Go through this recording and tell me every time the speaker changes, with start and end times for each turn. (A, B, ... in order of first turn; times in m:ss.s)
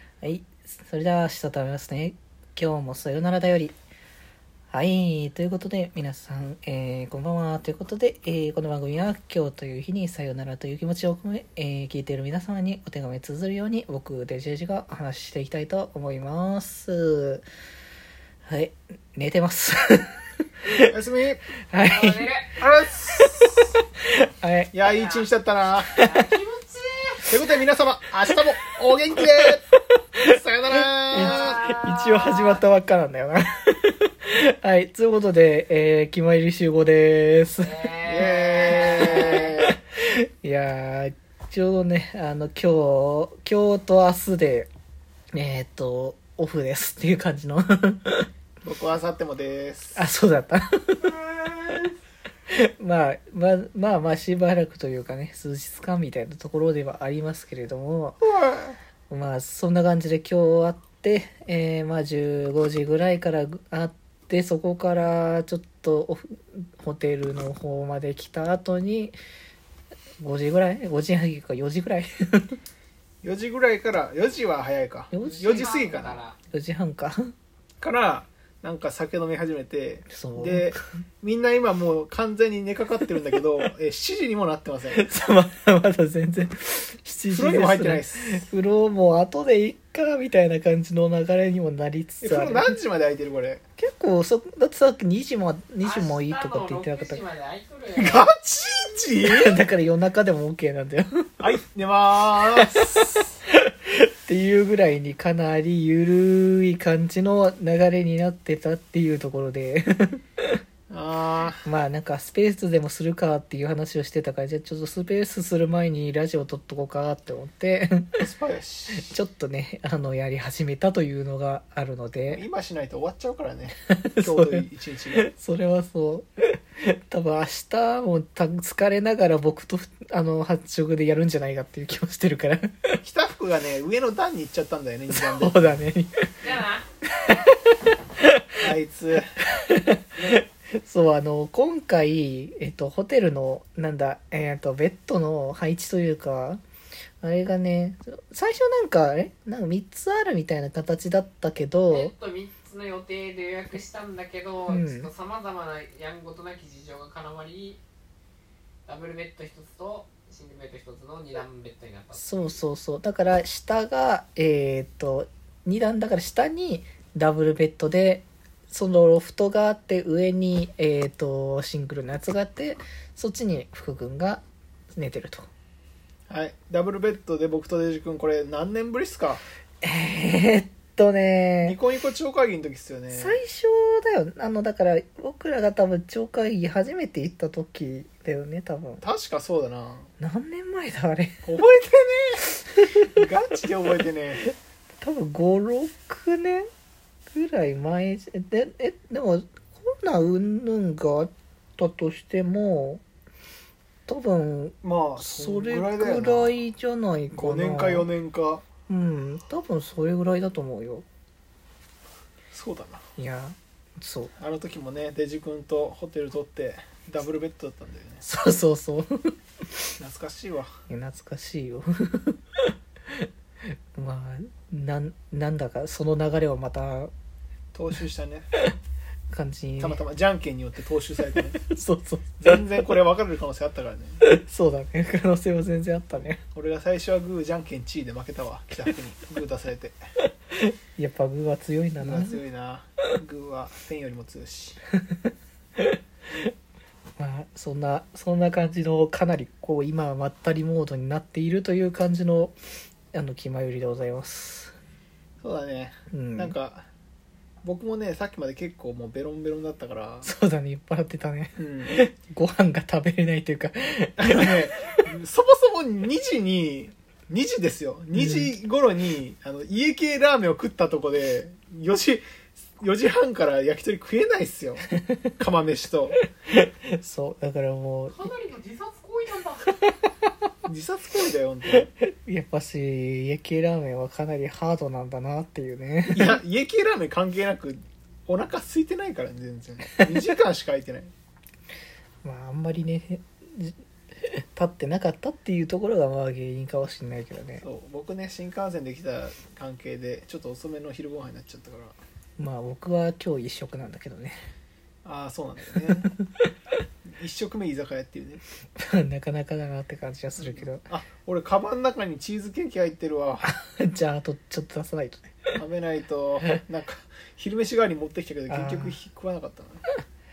0:00.2-0:03.8 A
0:04.7-0:17.4 A
0:18.4-0:20.9 A
0:20.8-0:21.4 B
0:21.7-0:22.3 A
0:21.8-0:22.6 C
0:22.6-0:23.6 B
0:23.2-0:23.4 A
0:24.1-0:24.7 A
0:24.7-0:25.9 B
0:24.8-0:25.3 C
0:26.0-0:27.3 C
0:27.3-0:29.6 B
0:30.2-0:31.6 B
0:31.1-0:39.7 A
0:31.4-0:32.6 C
0:37.6-0:39.5 C
0:38.0-0:39.7 B
0:40.4-0:44.7 A
0:45.3-0:48.3 A
0:48.6-0:50.0 B
0:50.0-0:51.1 A
0:52.5-0:58.2 A
0:58.2-0:58.8 B
0:59.1-1:09.2 A
1:10.2-1:12.5 A
1:13.2-1:16.2 B
1:15.1-1:15.7 A
1:15.2-1:16.4 C
1:16.5-1:17.3 A
1:17.8-1:25.0 B
1:20.1-1:20.8 A
1:24.9-1:32.7 A
1:27.3-1:28.4 B
1:32.2-1:33.6 B
1:33.8-1:37.2 A
1:35.8-1:38.3 C
1:37.9-1:39.6 B
1:39.2-1:41.4 A
1:41.4-1:43.2 B
1:42.6-1:50.6 A
1:50.9-1:51.6 B
1:51.6-1:58.2 A
1:58.2-1:59.1 B
1:58.9-2:02.4 A
2:02.3-2:05.2 B
2:03.9-2:06.3 A
2:06.8-2:13.0 A
2:13.0-2:15.8 B
2:15.1-2:16.3 A
2:16.4-2:16.8 C
2:17.2-2:18.5 A
2:18.6-2:19.3 B
2:19.6-2:26.6 A
2:27.2-2:32.1 A
2:31.9-2:37.8 C
2:34.6-2:35.1 A
2:38.8-2:42.6 C
2:42.1-2:55.5 A
2:56.3-2:59.4 B
2:59.8-3:01.8 A
3:01.6-3:03.4 B
3:03.1-3:09.0 A
3:09.0-3:10.1 B
3:10.2-3:11.4 A
3:11.4-3:12.4 B
3:12.8-3:13.2 A
3:13.1-3:14.4 B
3:15.0-3:16.7 A
3:17.3-3:23.0 A
3:24.1-3:28.1 A
3:24.8-3:26.5 B
3:27.3-3:28.6 B
3:28.9-3:31.0 A
3:32.5-3:33.0 B
3:33.2-3:34.3 A
3:34.4-3:38.2 B
3:38.2-3:39.3 A
3:40.0-3:40.7 B
3:40.9-3:42.4 A
3:43.9-3:47.1 A
3:47.7-3:48.5 B
3:49.3-3:50.0 A
3:49.8-3:51.6 B
3:51.6-3:52.6 A
3:52.4-3:54.2 B
3:54.2-3:56.4 A
3:56.5-4:00.0 B
4:01.0-4:02.4 A
4:02.0-4:04.8 B
4:07.2-4:12.5 A
4:13.1-4:14.7 A
4:15.4-4:16.8 B
4:16.1-4:16.5 A
4:17.6-4:20.3 B
4:20.2-4:24.9 A
4:21.6-4:21.9 B
4:24.2-4:32.2 B
4:28.1-4:28.5 A
4:32.8-4:34.8 B
4:35.4-4:36.2 B
4:36.5-4:38.3 A
4:38.1-4:39.7 C
4:40.6-4:41.9 B
4:42.0-4:46.4 A
4:46.1-4:51.1 B
4:52.2-4:57.6 A
4:57.6-5:02.0 B
5:02.4-5:04.4 A
5:05.0-5:06.1 B
5:07.0-5:08.4 B
5:08.8-5:10.9 A
5:10.4-5:13.5 B
5:13.4-5:15.5 A
5:15.5-5:19.8 B
5:18.5-5:19.0 A